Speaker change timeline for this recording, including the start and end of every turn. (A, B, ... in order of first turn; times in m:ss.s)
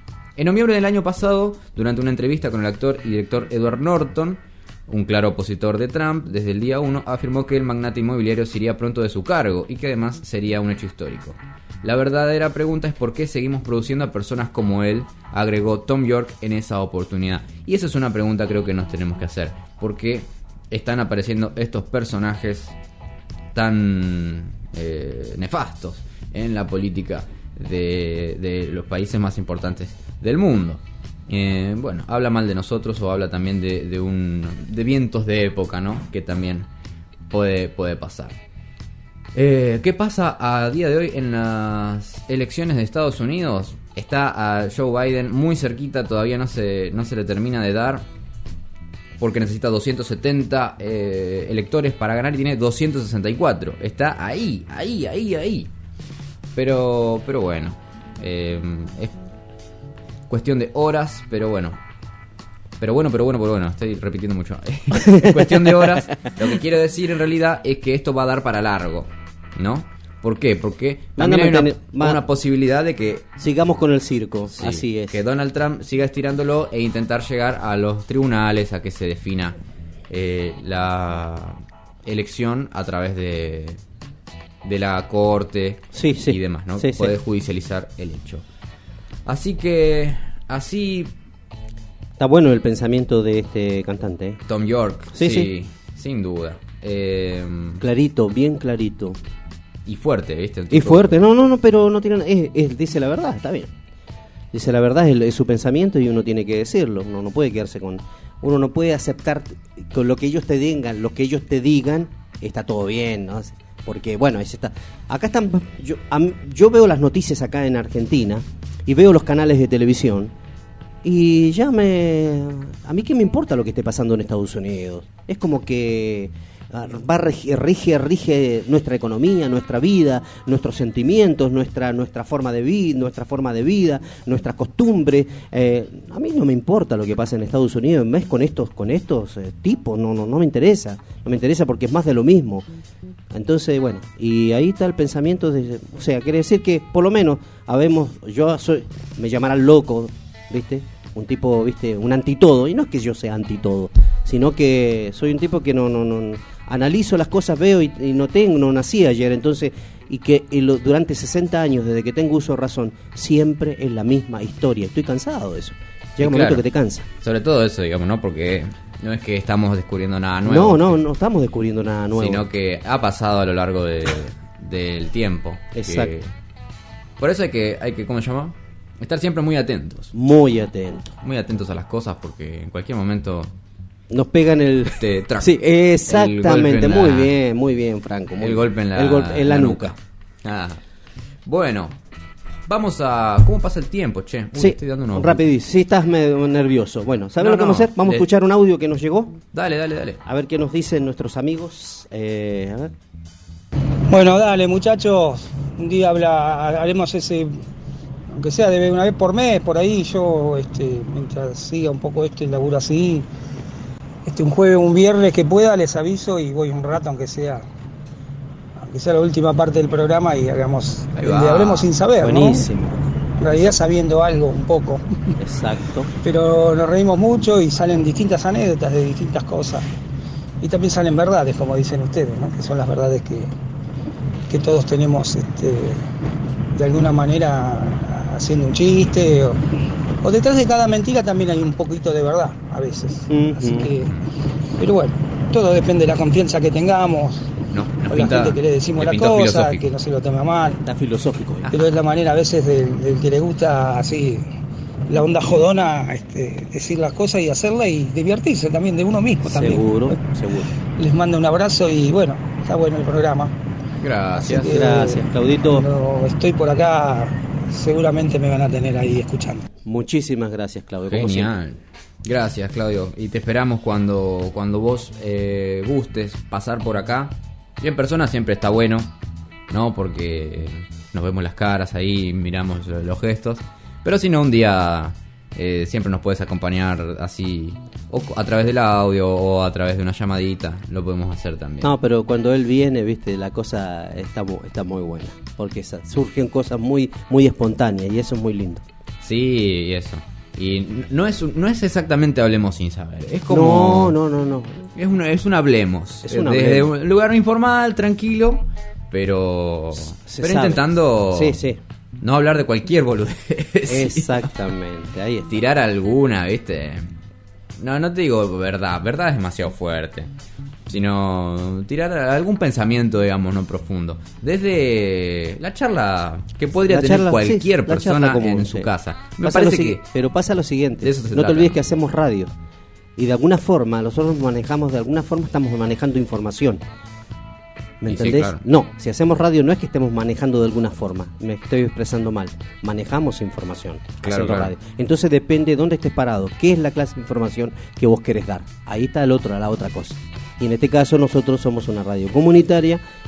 0:00.4-0:22.7 A
0:23.5-0:36.7 A
0:37.3-0:38.4 A
0:39.3-0:48.0 A
0:49.2-0:55.7 A
0:56.5-0:59.1 A
1:00.3-1:01.8 A
1:02.8-1:13.3 A
1:05.0-1:06.3 B
1:11.2-1:12.2 B
1:13.4-1:15.2 B
1:14.6-1:19.6 A
1:20.1-1:23.8 A
1:24.6-1:28.4 A
1:25.9-1:27.1 B
1:29.2-1:31.1 A
1:32.2-1:34.4 B
1:34.5-1:37.8 A
1:35.1-1:35.5 B
1:37.8-1:39.2 B
1:39.8-1:41.2 A
1:40.7-1:43.7 B
1:44.5-2:00.3 B
2:01.0-2:22.6 B
2:23.3-2:47.0 B
2:46.2-2:46.6 A
2:47.2-2:51.0 A
2:50.4-2:52.5 B
2:52.2-2:56.3 A
2:55.7-2:56.1 B
2:57.2-3:00.1 A
3:00.1-3:01.1 B
3:01.2-3:03.5 A
3:04.1-3:09.9 B
3:05.0-3:05.5 A
3:06.1-3:07.3 A
3:08.4-3:10.8 A
3:11.4-3:12.0 A
3:12.7-3:15.4 A
3:14.5-3:19.3 B
3:17.4-3:18.3 A
3:19.5-3:20.2 A
3:20.2-3:22.9 B
3:24.1-3:27.6 C
3:28.3-3:33.3 C
3:34.2-3:37.6 C
3:38.8-3:42.7 C
3:41.2-3:41.9 A
3:42.2-3:43.0 B
3:43.4-3:45.0 C
3:45.4-3:46.1 B
3:46.2-3:49.8 C
3:50.6-3:53.5 C
3:54.5-3:56.0 C
3:56.7-3:59.6 C
4:00.2-4:04.1 C
4:03.3-4:03.9 B
4:04.8-4:07.5 C
4:07.7-4:09.9 A
4:08.1-4:10.8 C
4:10.8-4:11.7 B
4:11.7-4:14.5 C
4:15.1-4:20.2 C
4:19.4-4:20.7 B
4:20.8-4:23.5 C
4:24.0-4:24.8 A
4:24.3-4:29.7 C
4:24.6-4:25.8 B
4:29.8-4:31.5 B
4:31.1-4:39.1 A
4:39.7-4:51.9 A
4:51.8-4:58.8 B
4:59.2-5:04.2 A
5:03.5-5:04.8 B
5:04.9-5:11.6 A
5:06.2-5:06.9 B
5:10.2-5:11.8 B
5:12.2-5:14.5 A
5:13.9-5:15.5 B
5:15.5-5:17.1 A
5:17.8-5:20.3 A
5:20.9-5:30.0 A
5:26.9-5:28.9 B
5:29.4-5:32.5 B
5:31.0-5:31.8 A
5:33.2-5:36.8 B
5:38.0-5:53.0 B
5:38.1-5:38.6 A
5:44.2-5:44.7 A